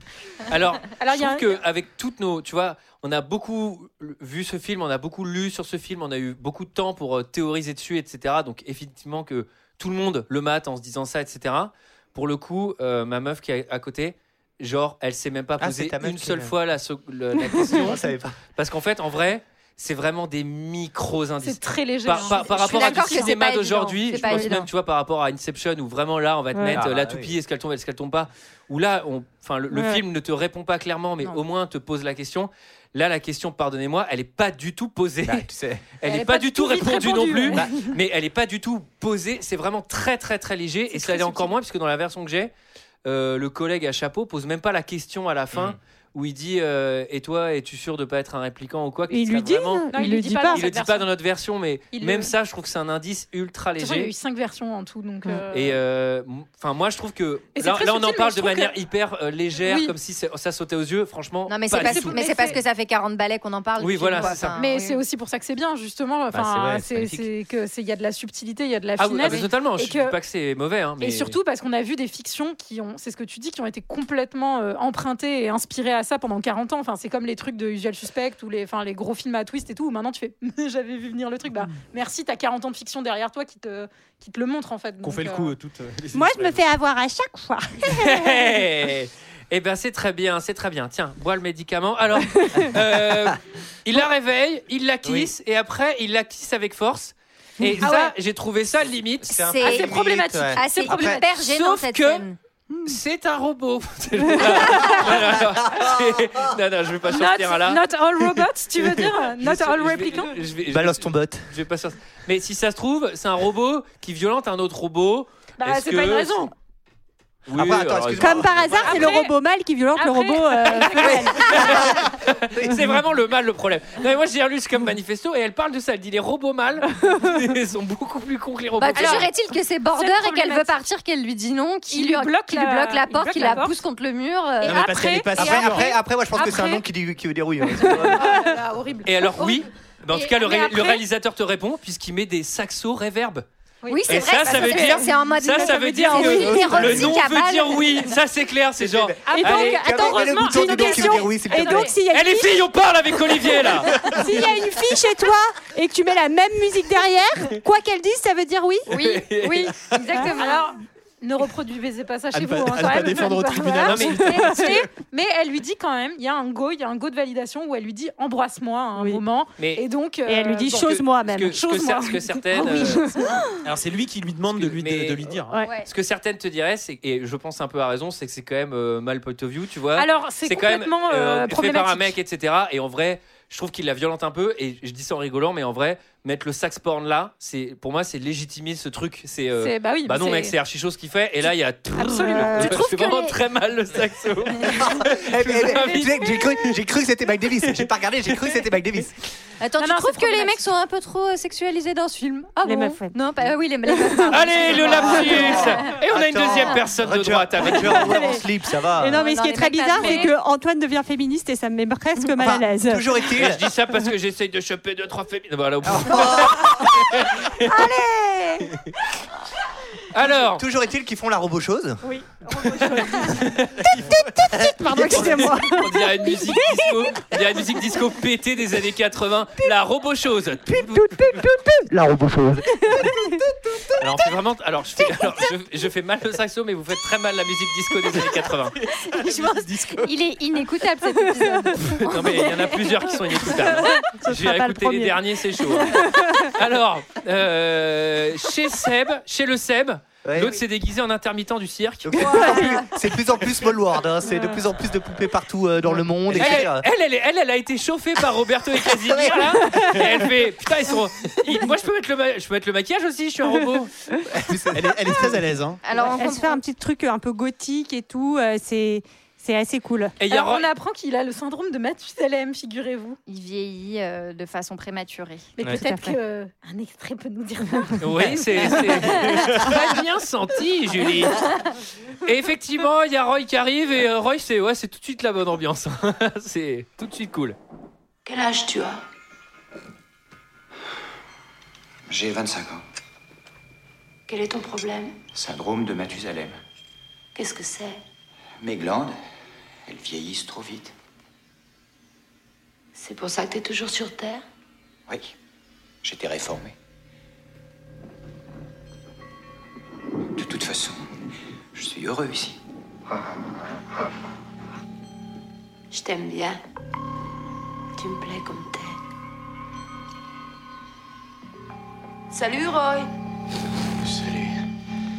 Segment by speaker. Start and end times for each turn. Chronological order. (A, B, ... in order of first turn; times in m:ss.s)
0:00.5-0:18.0 A
0:01.0-0:01.6 B
0:15.6-0:16.5 C
0:17.6-0:18.4 C
0:18.6-0:35.5 A
0:21.4-0:23.3 B
0:22.2-0:24.7 D
0:24.1-0:24.5 E
0:26.5-0:26.8 E
0:26.7-0:27.3 C
0:29.7-0:30.0 E
0:35.2-0:35.8 C
0:36.0-0:42.5 A
0:36.0-0:37.7 B
0:40.9-0:41.5 B
0:43.0-0:49.9 A
0:45.5-0:45.8 C
0:49.1-0:50.6 E
0:49.9-0:51.1 B
0:50.5-0:54.1 A
0:51.9-0:52.3 B
0:53.8-0:55.8 B
0:55.5-1:02.2 A
0:57.6-0:58.7 B
0:59.6-0:59.9 B
1:01.5-1:05.0 D
1:01.8-1:02.6 B
1:03.8-1:04.6 A
1:04.5-1:10.2 B
1:06.3-1:07.3 C
1:09.0-1:11.4 A
1:11.0-1:25.5 B
1:25.0-1:26.6 F
1:26.1-1:28.6 E
1:27.8-1:39.5 A
1:32.4-1:32.7 E
1:35.0-1:35.3 C
1:37.6-1:37.9 E
1:37.8-1:38.1 B
1:39.2-1:41.2 C
1:39.4-1:40.0 D
1:39.6-1:41.2 B
1:40.5-1:42.4 D
1:41.3-1:42.2 A
1:42.8-1:47.8 A
1:47.1-1:50.4 B
1:49.4-1:56.5 A
1:50.7-1:51.5 C
1:55.6-1:56.5 B
1:57.5-1:59.0 A
1:57.5-1:58.9 C
1:58.1-2:01.9 E
1:58.8-1:59.3 B
2:00.0-2:01.9 B
2:01.0-2:02.0 C
2:01.4-2:09.3 A
2:08.8-2:15.0 D
2:09.0-2:09.3 B
2:09.9-2:10.8 B
2:11.9-2:13.8 B
2:14.6-2:15.9 F
2:14.6-2:16.8 B
2:15.4-2:18.4 C
2:17.8-2:19.6 B
2:19.0-2:23.4 A
2:20.1-2:21.0 D
2:23.8-2:25.1 B
2:23.9-2:28.1 D
2:24.1-2:29.8 A
2:25.5-2:26.9 E
2:26.4-2:27.2 C
2:28.8-2:31.9 C
2:29.3-2:31.9 B
2:29.3-2:32.7 E
2:32.1-2:34.2 A
2:33.5-2:38.9 E
2:38.9-2:39.9 A
2:38.9-2:40.7 D
2:40.3-2:51.0 B
2:42.3-2:44.8 F
2:43.8-2:44.3 A
2:44.4-2:44.7 E
2:49.6-2:49.8 A
2:50.3-2:51.6 E
2:50.8-2:53.2 A
2:51.5-2:53.4 B
2:52.6-2:53.3 E
2:53.6-2:55.6 F
2:54.5-3:16.8 A
2:55.6-2:55.9 D
3:00.0-3:02.2 B
3:09.6-3:10.5 B
3:12.0-3:12.8 B
3:12.3-3:13.1 E
3:14.8-3:19.1 C
3:19.6-3:26.0 D
3:19.8-3:20.6 B
3:22.6-3:23.2 E
3:23.9-3:24.4 E
3:24.3-3:28.2 A
3:24.8-3:29.2 C
3:27.8-3:28.4 E
3:29.0-3:33.1 E
3:29.1-3:30.4 D
3:30.0-3:30.3 B
3:32.4-3:33.6 C
3:33.3-3:37.7 A
3:35.9-3:36.8 C
3:37.6-3:38.7 E
3:40.1-3:40.6 A
3:40.2-3:42.0 C
3:42.0-3:47.6 E
3:43.1-3:43.8 A
3:43.9-3:44.1 F
3:44.5-3:45.4 C
3:45.1-3:51.4 A
3:50.9-3:51.6 E
3:51.9-3:53.0 C
3:52.7-3:53.2 E
3:54.0-3:58.8 A
3:58.9-4:00.1 F
3:59.1-4:03.3 D
4:01.8-4:12.5 A
4:03.6-4:06.5 E
4:10.2-4:10.6 C
4:12.0-4:16.8 C
4:12.3-4:12.8 E
4:14.3-4:14.6 E
4:16.3-4:23.9 A
4:18.9-4:19.6 C
4:19.7-4:20.0 E
4:24.3-4:25.4 C
4:24.7-4:25.8 F
4:25.8-4:26.6 D
4:26.2-4:30.1 E
4:30.2-4:30.6 A
4:30.3-4:33.2 B
4:33.3-4:35.5 D
4:35.6-4:39.8 B
4:35.7-4:36.2 E
4:38.0-4:41.5 A
4:39.2-4:39.6 D
4:42.2-4:47.6 A
4:48.2-4:49.0 G
4:52.1-4:52.8 H
4:54.3-4:55.2 G
4:55.3-4:56.5 H
4:57.3-4:58.0 G
4:58.6-4:59.2 H
4:59.9-5:00.9 H
5:02.9-5:04.4 G
5:06.0-5:06.7 H
5:10.4-5:11.0 H
5:11.7-5:12.6 H
5:15.9-5:16.6 G
5:18.0-5:19.0 G
5:22.3-5:23.1 G